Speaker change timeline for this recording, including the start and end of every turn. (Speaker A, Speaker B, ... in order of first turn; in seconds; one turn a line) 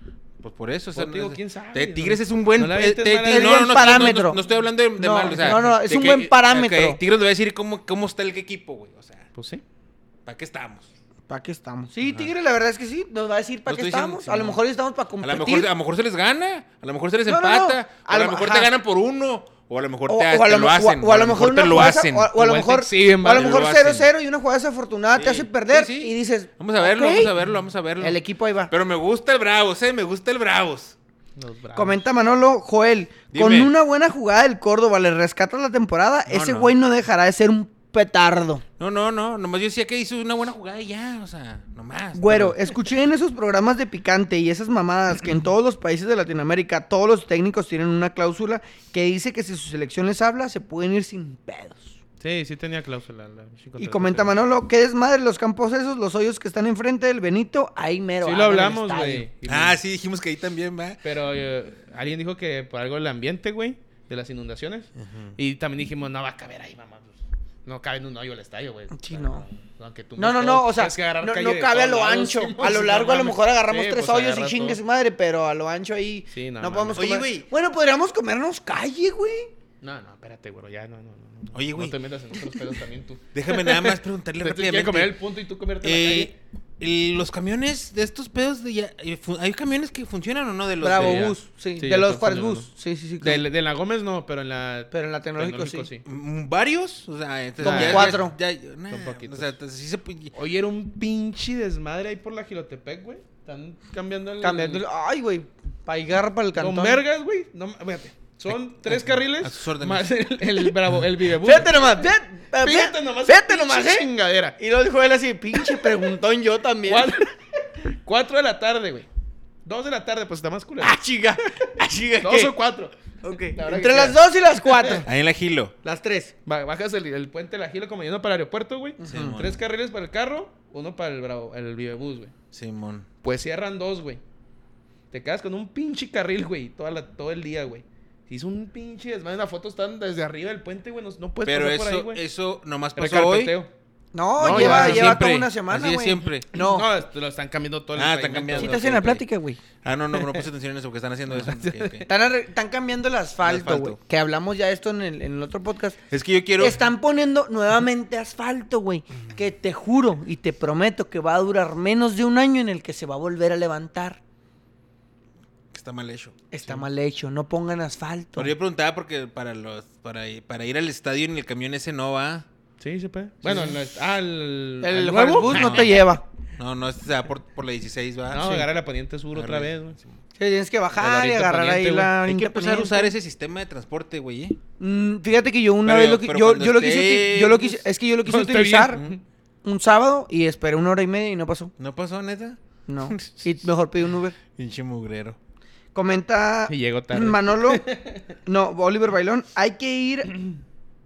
Speaker A: 0.4-9.3
Speaker B: 0.9-4.5
Speaker C: 3.3-4.4
Speaker C: 5.0-7.0
Speaker B: 5.3-5.7
Speaker B: 9.3-9.6
Speaker A: 10.2-10.9
Speaker C: 11.3-15.7
Speaker A: 13.7-14.6
Speaker A: 15.2-22.3
Speaker C: 17.3-18.7
Speaker C: 20.1-27.3
Speaker B: 22.3-23.6
Speaker A: 23.2-24.1
Speaker A: 25.1-28.2
Speaker C: 28.0-28.7
Speaker A: 28.7-30.9
Speaker B: 31.4-32.0
Speaker C: 31.7-38.6
Speaker A: 33.3-33.7
Speaker A: 36.3-36.7
Speaker A: 38.8-42.6
Speaker C: 42.1-52.0
Speaker B: 52.2-54.4
Speaker C: 53.8-59.3
Speaker B: 58.2-59.8
Speaker A: 59.5-61.0
Speaker B: 61.0-74.8
Speaker A: 65.0-65.3
Speaker C: 68.9-69.4
Speaker C: 70.2-79.5
Speaker B: 76.3-77.0
Speaker A: 76.9-77.5
Speaker B: 79.8-86.3
Speaker A: 81.5-82.0
Speaker A: 83.3-85.1
Speaker A: 85.8-91.3
Speaker C: 90.8-93.4
Speaker B: 90.9-92.7
Speaker B: 93.2-96.0
Speaker C: 94.9-95.9
Speaker A: 96.0-100.3
Speaker C: 97.6-98.3
Speaker B: 97.6-98.2
Speaker B: 98.9-99.5
Speaker B: 100.3-104.8
Speaker C: 104.4-107.0
Speaker B: 106.5-112.1
Speaker A: 108.9-110.1
Speaker C: 111.4-114.0
Speaker B: 112.6-114.6
Speaker C: 114.6-117.1
Speaker B: 115.5-116.0
Speaker B: 116.8-119.1
Speaker B: 119.6-121.0
Speaker C: 120.8-122.5
Speaker B: 122.2-125.0
Speaker C: 123.2-125.1
Speaker A: 125.0-125.7
Speaker C: 125.8-126.3
Speaker B: 126.5-132.3
Speaker C: 129.0-129.4
Speaker A: 129.1-129.6
Speaker A: 132.5-133.1
Speaker B: 133.2-134.2
Speaker B: 135.1-142.2
Speaker A: 141.4-143.5
Speaker B: 142.9-143.7
Speaker C: 144.1-146.9
Speaker B: 144.4-145.2
Speaker A: 144.4-146.5
Speaker B: 146.5-148.9
Speaker A: 147.9-149.2
Speaker C: 148.6-149.6
Speaker A: 149.8-152.1
Speaker B: 150.2-150.4
Speaker B: 151.3-152.1
Speaker C: 152.1-156.0
Speaker A: 153.4-154.0
Speaker A: 156.1-156.9
Speaker C: 156.6-164.2
Speaker A: 165.7-166.4
Speaker C: 166.5-168.5
Speaker A: 168.4-172.5
Speaker B: 172.8-176.0
Speaker A: 173.4-173.8
Speaker C: 174.8-176.2
Speaker A: 175.4-176.0
Speaker A: 176.6-178.7
Speaker B: 178.3-180.0
Speaker A: 179.3-180.1
Speaker C: 180.4-183.1
Speaker B: 181.0-182.2
Speaker A: 182.2-184.6
Speaker C: 184.8-189.0
Speaker A: 185.8-187.8
Speaker B: 188.2-189.2
Speaker C: 189.6-191.7
Speaker A: 191.8-193.5
Speaker C: 192.9-194.3
Speaker A: 194.5-195.4
Speaker C: 195.9-197.8
Speaker B: 196.7-198.2
Speaker C: 198.4-200.3